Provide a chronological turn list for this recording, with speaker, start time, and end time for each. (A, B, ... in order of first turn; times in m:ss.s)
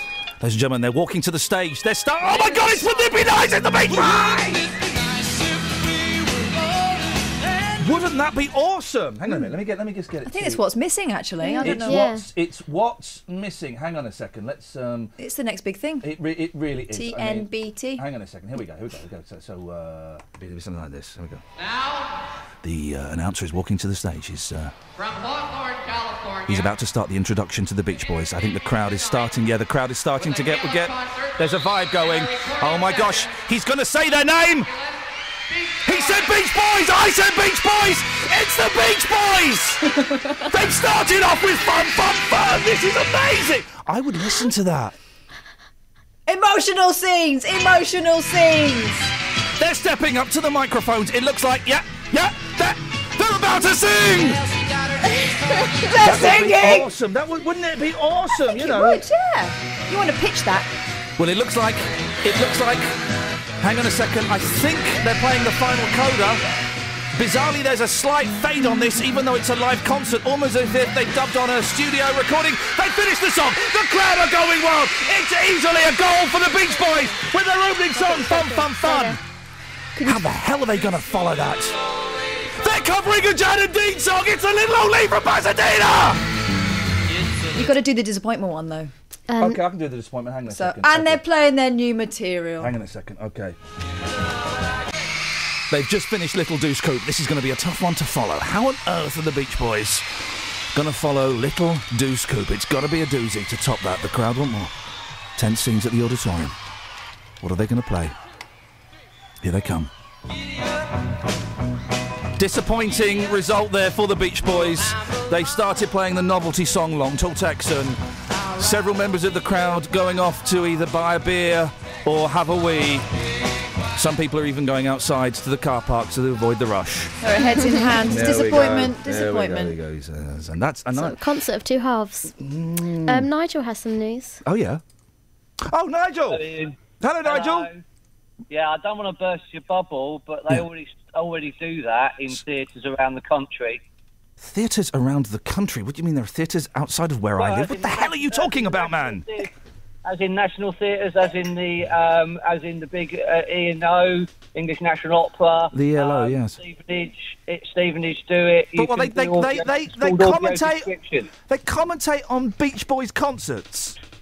0:00.4-0:04.7 A
0:07.8-0:10.6 A
0:10.2-0:12.1 B
0:11.4-0:12.2 C
0:11.6-0:15.1 A
0:15.2-0:16.1 B
0:16.0-0:21.4 A
0:16.9-0:18.0 B
0:22.6-0:24.7 A
0:26.4-0:34.7 A
0:35.8-0:39.9 A
0:40.4-0:44.9 A
0:46.3-0:49.1 B
0:49.6-0:54.5 A
0:55.1-0:56.9 B
0:56.0-0:59.0 A
0:58.5-1:00.7 B
1:01.2-1:03.0 A
1:03.6-1:06.4 A
1:07.2-1:19.2 A
1:18.0-1:19.2 C
1:20.0-1:21.8 A
1:22.4-1:26.2 A
1:27.5-1:28.9 B
1:29.3-1:29.6 C
1:29.4-1:31.2 A
1:30.5-1:32.7 B
1:32.6-1:33.6 A
1:35.7-1:44.7 A
1:45.4-1:46.6 A
1:47.4-1:48.2 A
1:49.4-1:49.9 A
1:52.4-1:58.0 A
1:58.5-2:03.0 A
2:03.9-2:07.2 A
2:07.2-2:09.7 B
2:07.5-2:08.1 C
2:08.0-2:11.2 A
2:10.9-2:12.4 C
2:12.4-2:13.3 A
2:13.0-2:14.4 C
2:14.4-2:14.8 A
2:15.6-2:16.4 A
2:16.3-2:17.8 D
2:17.0-2:17.7 A
2:18.5-2:23.8 D
2:24.4-2:29.2 A
2:27.4-2:29.5 D
2:30.0-2:41.3 D
2:35.7-2:36.6 A
2:38.8-2:40.9 A
2:41.5-2:44.0 A